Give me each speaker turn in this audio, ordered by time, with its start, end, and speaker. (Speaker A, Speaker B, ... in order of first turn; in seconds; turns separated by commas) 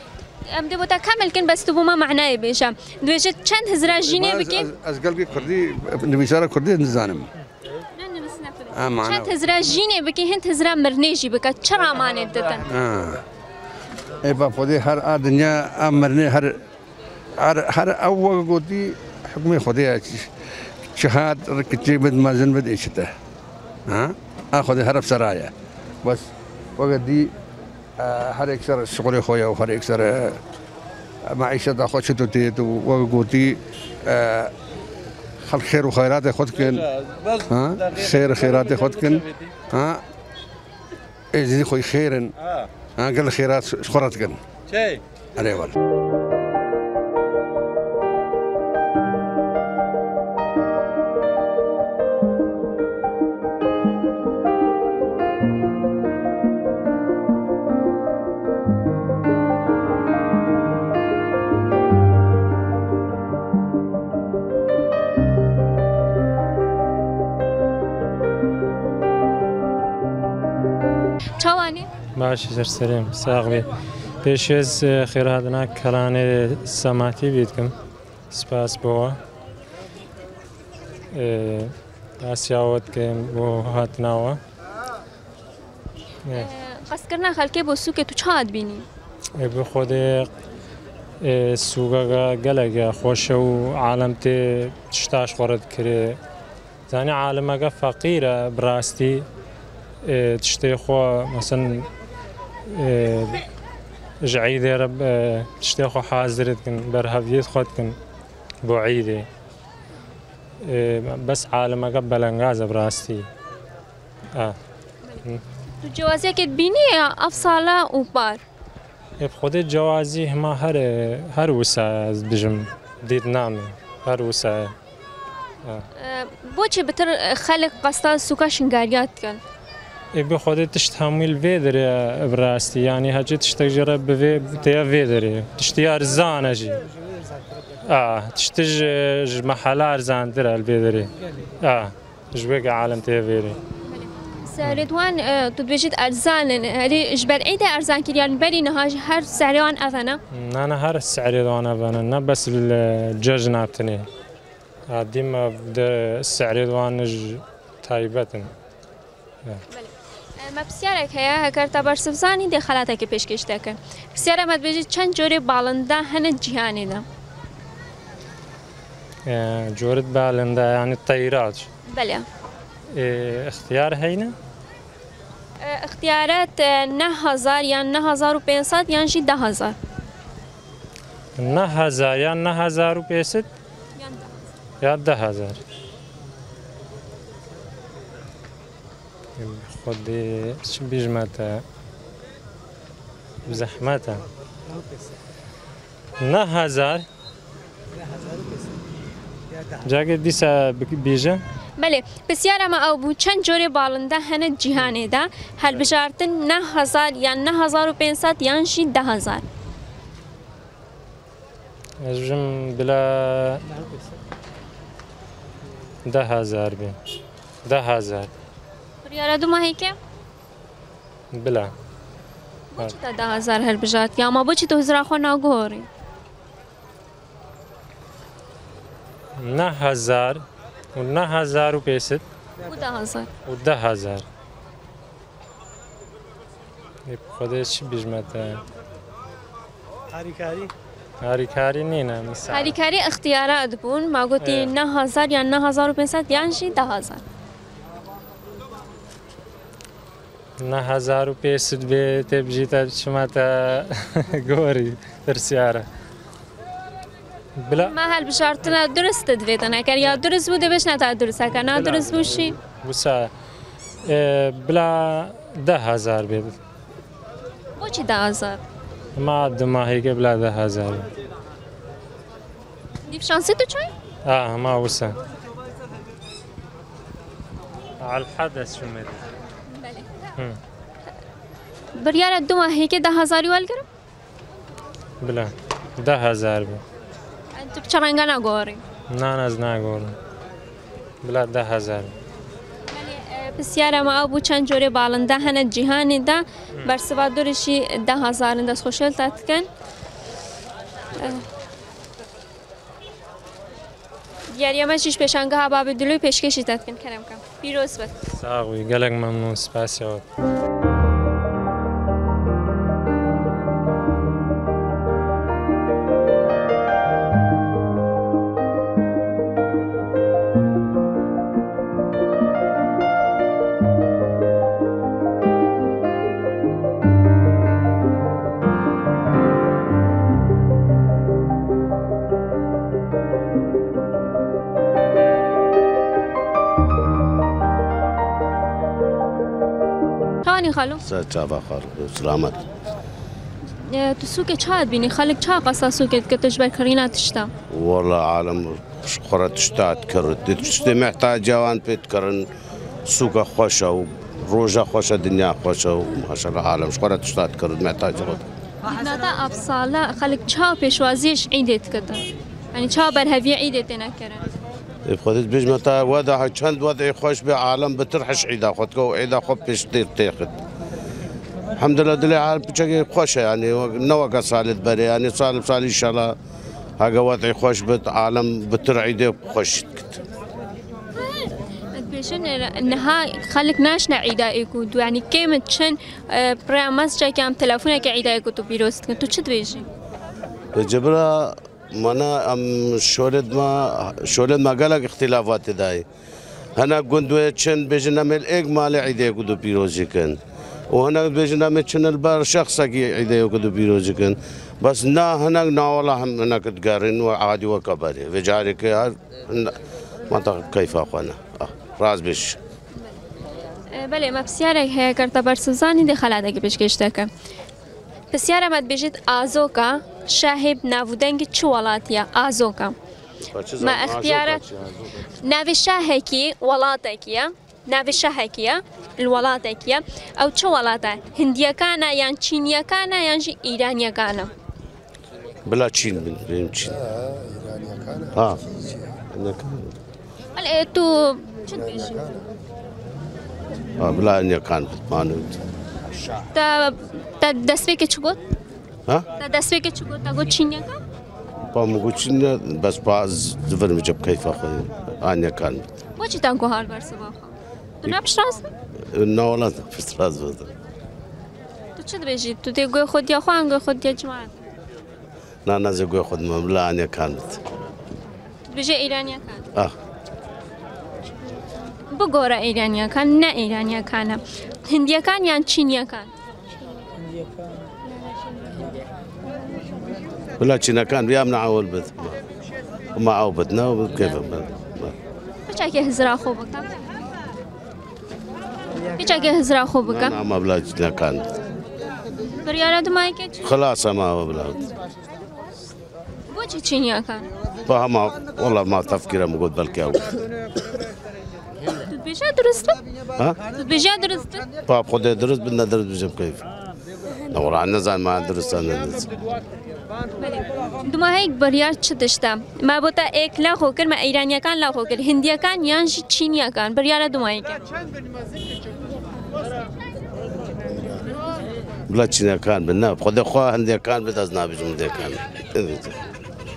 Speaker A: 0.5-4.7, Speaker B: 4.0-7.3, Speaker A: 8.0-12.7, Speaker B: 8.7-9.3, Speaker B: 12.7-13.2, Speaker B: 14.2-16.6, Speaker B: 17.4-20.3, Speaker B: 20.9-23.1, Speaker B: 23.9-27.3, Speaker B: 28.0-30.4, Speaker B: 31.2-34.5, Speaker B: 35.5-36.9, Speaker B: 37.5-40.0, Speaker B: 41.3-42.3, Speaker B: 43.0-44.4, Speaker B: 45.4-45.8, Speaker A: 71.4-71.9, Speaker C: 72.2-73.7, Speaker C: 74.2-77.7, Speaker C: 78.3-79.2, Speaker C: 81.1-84.4, Speaker A: 86.3-88.9, Speaker C: 89.4-90.3, Speaker C: 91.2-96.2, Speaker C: 96.9-99.2, Speaker C: 100.0-101.9, Speaker C: 102.7-103.4, Speaker C: 104.2-108.0, Speaker C: 108.6-109.3, Speaker C: 110.6-113.3, Speaker A: 115.8-118.4, Speaker C: 119.2-124.7, Speaker A: 126.0-129.4, Speaker C: 130.1-136.8, Speaker C: 137.8-141.1, Speaker C: 141.6-143.6, Speaker A: 143.9-150.2, Speaker C: 150.3-154.1, Speaker C: 154.9-158.5, Speaker A: 159.7-167.1, Speaker C: 169.3-171.7, Speaker A: 171.9-172.2, Speaker C: 172.9-174.3, Speaker A: 175.6-179.8, Speaker C: 181.4-183.5, Speaker A: 184.0-184.5, Speaker C: 184.8-185.6, Speaker C: 189.4-191.6, Speaker C: 193.5-194.2, Speaker C: 196.2-197.1, Speaker C: 199.8-201.4, Speaker A: 201.8-209.4, Speaker C: 212.0-213.6, Speaker C: 216.1-217.0, Speaker C: 217.7-218.3, Speaker A: 219.0-220.0, Speaker C: 221.3-221.7, Speaker A: 222.7-225.9, Speaker C: 229.4-230.4, Speaker C: 231.0-232.2, Speaker A: 232.7-233.3, Speaker C: 233.5-234.2, Speaker C: 237.1-238.6, Speaker C: 241.2-242.8, Speaker A: 242.5-247.2, Speaker C: 244.4-244.7, Speaker C: 250.6-255.9, Speaker C: 257.6-257.9, Speaker A: 257.8-262.6, Speaker C: 261.7-263.3, Speaker C: 264.1-266.6, Speaker A: 267.8-268.6, Speaker C: 269.2-271.1, Speaker A: 273.1-273.9, Speaker C: 274.3-275.2, Speaker C: 278.0-279.2, Speaker A: 279.7-280.1, Speaker A: 281.9-283.9, Speaker C: 285.2-286.8, Speaker A: 287.6-288.8, Speaker C: 289.1-290.2, Speaker C: 291.2-292.1, Speaker A: 292.9-299.7, Speaker A: 301.2-301.4, Speaker A: 304.5-308.1, Speaker C: 308.4-310.2, Speaker A: 340.4-341.0, Speaker D: 341.0-342.6, Speaker A: 343.7-347.5, Speaker D: 347.7-352.4, Speaker D: 353.1-358.4, Speaker A: 358.9-362.2, Speaker A: 362.7-364.4, Speaker D: 365.1-370.6, Speaker D: 371.8-376.3, Speaker D: 377.0-380.1, Speaker A: 381.9-389.9, Speaker D: 390.7-396.0, Speaker D: 396.8-400.4, Speaker D: 400.9-409.7, Speaker D: 410.3-412.6, Speaker A: 413.9-417.3, Speaker A: 418.3-422.9, Speaker D: 423.5-425.3, Speaker A: 423.8-424.6, Speaker A: 425.4-434.5, Speaker D: 435.7-437.0, Speaker D: 438.3-438.6, Speaker D: 439.3-439.9, Speaker A: 440.6-442.4, Speaker D: 444.0-445.5, Speaker A: 446.5-448.4, Speaker A: 449.4-451.0, Speaker D: 451.7-455.8, Speaker A: 456.2-458.7, Speaker D: 459.1-460.7, Speaker A: 462.0-464.5, Speaker D: 465.7-467.6, Speaker A: 468.7-469.7, Speaker A: 472.1-476.3, Speaker D: 480.6-482.4, Speaker D: 483.1-485.2, Speaker A: 485.7-487.0, Speaker A: 489.2-490.4, Speaker D: 490.1-491.5, Speaker A: 492.6-493.6, Speaker D: 493.6-494.9, Speaker A: 496.5-497.5, Speaker D: 497.9-500.4, Speaker A: 502.0-503.0, Speaker A: 503.7-504.6, Speaker D: 504.9-506.6, Speaker D: 507.5-509.4, Speaker A: 510.4-517.8, Speaker D: 522.1-526.2